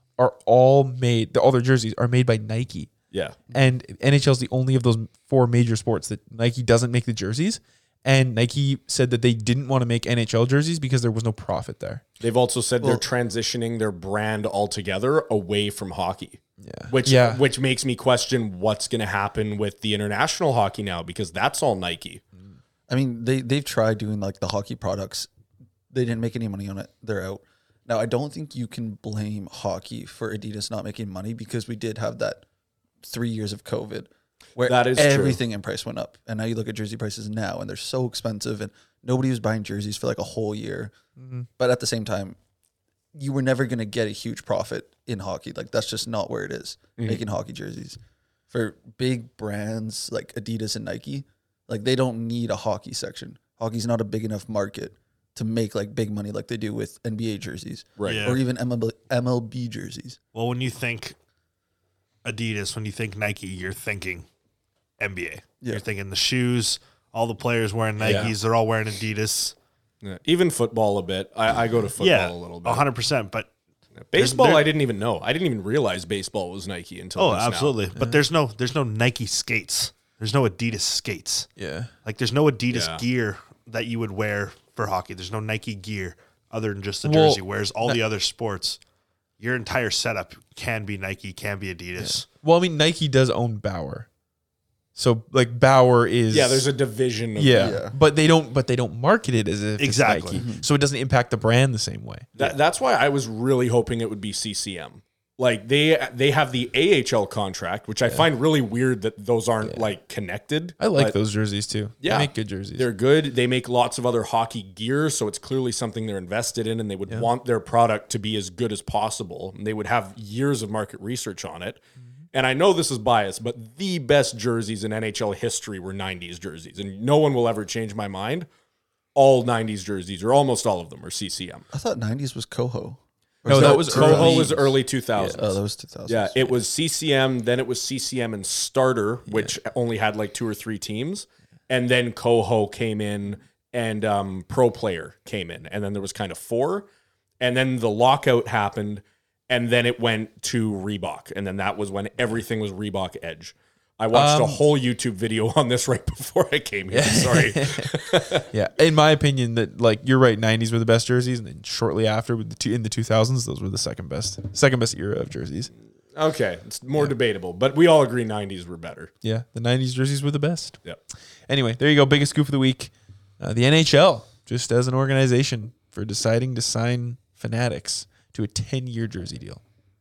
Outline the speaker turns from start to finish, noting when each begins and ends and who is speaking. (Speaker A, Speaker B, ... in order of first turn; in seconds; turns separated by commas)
Speaker A: 0.2-2.9, Speaker A: 3.5-12.0, Speaker B: 12.2-22.2, Speaker A: 16.6-17.4, Speaker C: 22.9-25.3, Speaker C: 25.9-32.4, Speaker C: 33.0-40.9, Speaker B: 34.6-35.4, Speaker A: 41.2-41.5, Speaker C: 41.6-42.4, Speaker C: 43.1-48.0, Speaker C: 48.5-60.2, Speaker B: 58.0-58.4, Speaker D: 58.0-58.4, Speaker D: 60.3-61.1, Speaker D: 62.2-64.3, Speaker D: 65.0-69.5, Speaker A: 68.0-68.3, Speaker B: 70.0-72.8, Speaker D: 72.0-73.5, Speaker B: 74.1-77.8, Speaker D: 74.1-74.7, Speaker D: 77.2-81.5, Speaker A: 77.9-78.2, Speaker A: 81.6-81.9, Speaker D: 82.0-88.8, Speaker B: 82.7-83.0, Speaker A: 87.0-88.0, Speaker D: 89.4-92.2, Speaker A: 92.0-94.1, Speaker A: 95.0-96.7, Speaker B: 96.3-97.8, Speaker A: 97.3-102.5, Speaker C: 97.5-97.9, Speaker D: 99.8-100.4, Speaker C: 100.3-100.7, Speaker B: 102.3-111.2, Speaker A: 109.6-109.9, Speaker A: 110.8-112.9, Speaker B: 112.0-121.8, Speaker B: 122.3-128.5, Speaker B: 129.1-131.7, Speaker C: 131.7-136.5, Speaker B: 133.4-146.9, Speaker A: 133.4-134.6, Speaker A: 139.3-139.5, Speaker B: 147.4-158.4, Speaker A: 154.1-154.6, Speaker A: 156.9-165.7, Speaker B: 166.1-169.1, Speaker A: 169.2-170.8, Speaker A: 171.5-179.6